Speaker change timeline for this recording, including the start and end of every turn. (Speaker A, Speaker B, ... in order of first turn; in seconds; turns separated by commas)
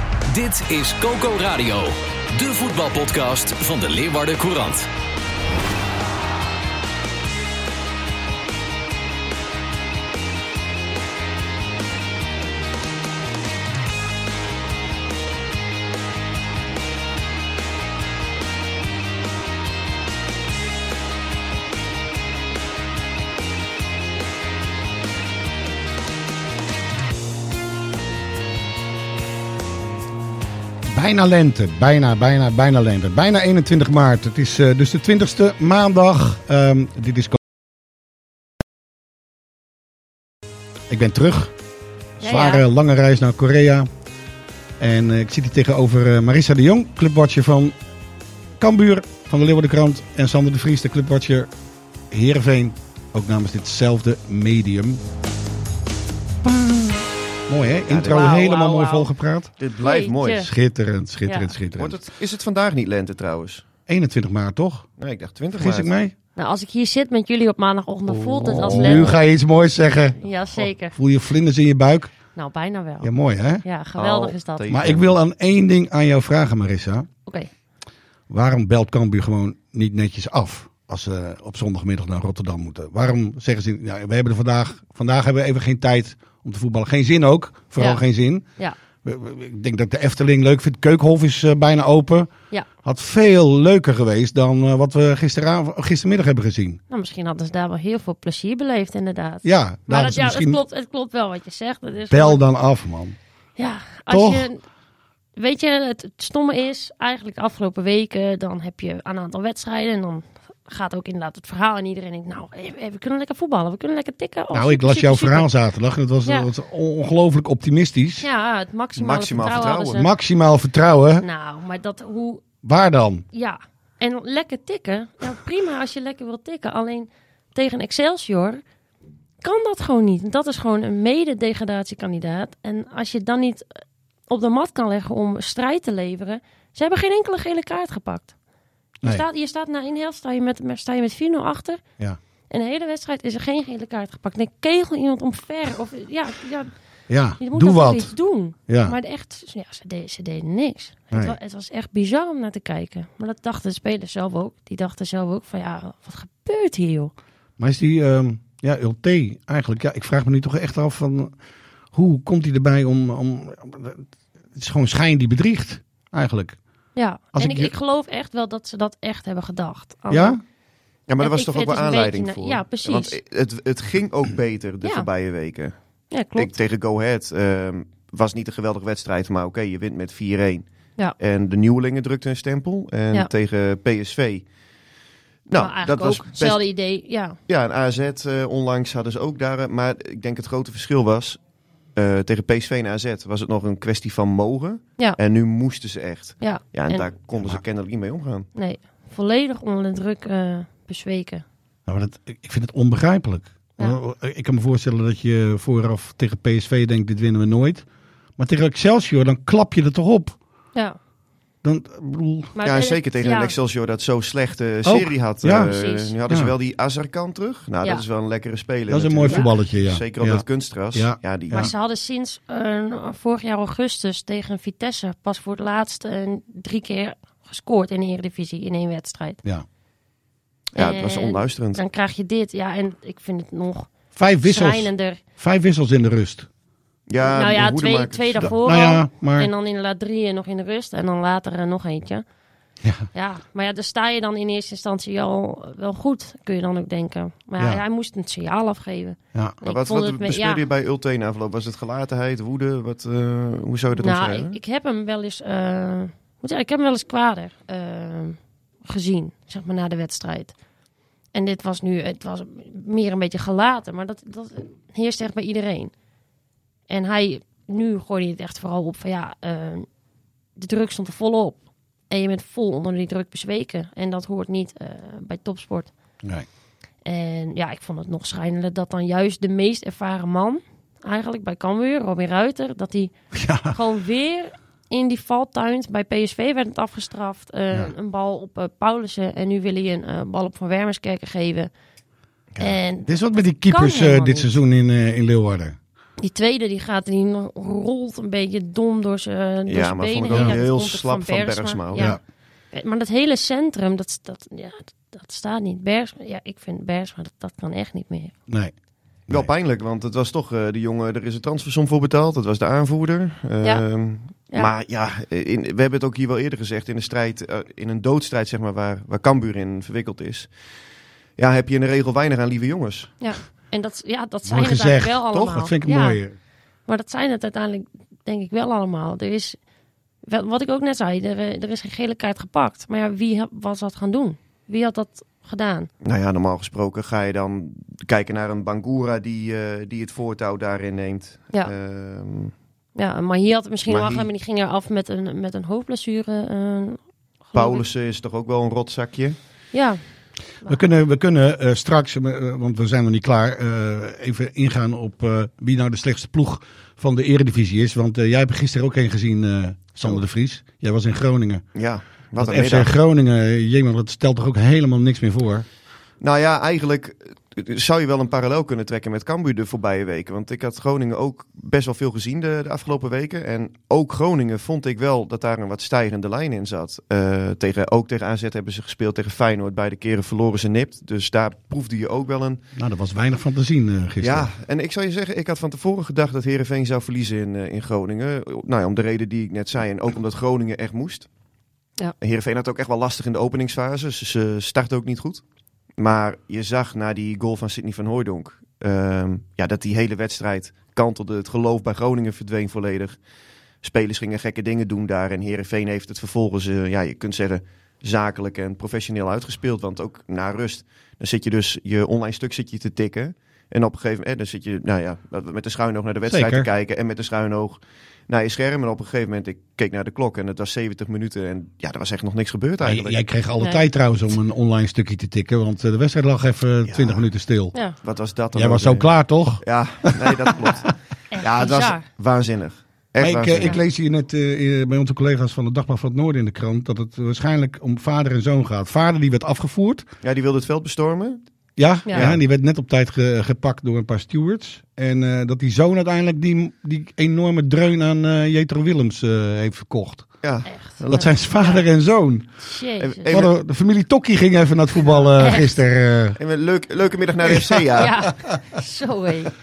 Speaker A: 0.3-4.9, Speaker B: 30.9-37.4, Speaker B: 40.9-41.5, Speaker C: 42.2-42.6, Speaker B: 42.2-43.9, Speaker B: 44.8-47.7, Speaker B: 48.6-51.5, Speaker B: 52.1-55.0, Speaker B: 56.4-59.5, Speaker D: 57.9-58.3, Speaker C: 58.0-59.1, Speaker D: 59.6-60.5, Speaker C: 59.8-60.5, Speaker B: 60.4-62.0, Speaker C: 61.2-61.5, Speaker D: 61.8-63.6, Speaker B: 63.9-64.9, Speaker D: 65.0-65.9, Speaker B: 65.5-66.1, Speaker C: 66.3-69.1, Speaker B: 68.1-72.1, Speaker D: 68.7-69.1, Speaker C: 70.2-70.9, Speaker C: 72.3-73.1, Speaker B: 73.0-73.6, Speaker C: 73.6-74.8, Speaker D: 74.0-75.1, Speaker B: 74.7-77.1, Speaker B: 78.3-88.4, Speaker C: 87.8-88.0, Speaker B: 89.0-92.3, Speaker B: 92.8-96.8, Speaker C: 96.9-102.4, Speaker B: 99.4-100.6, Speaker B: 102.1-103.2, Speaker C: 103.6-104.6, Speaker B: 104.1-104.5, Speaker C: 105.3-115.5, Speaker B: 114.5-118.2, Speaker C: 118.2-120.1, Speaker D: 118.9-120.0, Speaker B: 119.9-121.2, Speaker C: 121.2-122.4, Speaker B: 122.6-123.2, Speaker C: 123.3-128.6, Speaker C: 129.4-138.3, Speaker C: 139.0-141.8, Speaker C: 142.5-146.7, Speaker B: 147.1-148.1, Speaker C: 147.4-157.1, Speaker B: 148.7-148.9, Speaker B: 157.6-161.3, Speaker B: 161.9-164.0, Speaker B: 164.5-166.6, Speaker C: 166.9-170.4, Speaker B: 167.3-167.7, Speaker B: 170.1-170.4, Speaker D: 171.1-175.7, Speaker C: 171.2-173.2, Speaker C: 176.1-176.5, Speaker D: 176.3-180.7, Speaker D: 181.2-184.4, Speaker D: 185.5-186.6, Speaker C: 185.5-187.4, Speaker D: 187.5-191.4, Speaker D: 191.9-198.5, Speaker C: 196.4-197.1, Speaker C: 198.6-201.4, Speaker B: 201.9-207.8, Speaker B: 208.4-210.4, Speaker B: 211.6-212.5, Speaker C: 212.5-213.5, Speaker D: 212.6-221.7, Speaker B: 214.8-215.7, Speaker C: 215.6-216.1, Speaker B: 216.3-216.5, Speaker B: 218.9-221.7, Speaker C: 221.5-229.4, Speaker D: 230.7-231.8, Speaker C: 230.8-233.9, Speaker B: 234.1-236.5, Speaker C: 234.4-235.2, Speaker D: 237.1-238.5, Speaker C: 237.2-242.2, Speaker B: 238.4-239.5, Speaker B: 242.8-243.1, Speaker C: 243.1-250.6, Speaker D: 249.6-254.6, Speaker C: 253.9-260.5, Speaker C: 261.3-265.9, Speaker C: 266.9-269.9, Speaker C: 270.6-275.9, Speaker C: 277.0-283.1, Speaker B: 283.3-283.8, Speaker C: 283.6-291.7, Speaker C: 292.6-294.5, Speaker B: 293.1-295.8, Speaker C: 296.2-302.2, Speaker D: 299.7-302.2, Speaker B: 301.9-302.2, Speaker C: 302.7-308.3, Speaker B: 308.5-308.7, Speaker D: 309.3-320.5, Speaker D: 321.4-323.1, Speaker C: 323.2-326.2, Speaker B: 324.4-326.3, Speaker C: 326.9-329.6, Speaker C: 330.2-335.9, Speaker D: 336.0-342.5, Speaker C: 342.9-347.0, Speaker D: 343.9-344.3, Speaker C: 347.5-347.8, Speaker D: 347.5-349.4, Speaker C: 349.7-350.0, Speaker B: 350.6-361.6, Speaker D: 361.7-362.9, Speaker B: 362.4-365.6, Speaker D: 366.2-382.6, Speaker B: 382.8-384.5, Speaker D: 384.2-391.3, Speaker D: 392.2-395.4, Speaker D: 396.0-403.2, Speaker D: 403.8-423.2, Speaker B: 416.3-416.7, Speaker B: 422.8-427.7, Speaker C: 423.6-423.9, Speaker D: 426.8-427.2, Speaker D: 428.0-433.8, Speaker B: 428.5-430.7, Speaker C: 431.3-432.0, Speaker B: 433.2-440.1, Speaker D: 440.2-441.4, Speaker B: 441.8-450.3, Speaker D: 442.1-442.4, Speaker D: 450.4-451.2, Speaker C: 450.6-451.9, Speaker B: 451.0-452.5, Speaker C: 452.6-453.3, Speaker D: 453.0-453.5, Speaker B: 453.3-456.4, Speaker C: 455.2-455.7, Speaker D: 456.4-458.3, Speaker B: 457.5-458.0, Speaker C: 457.9-459.5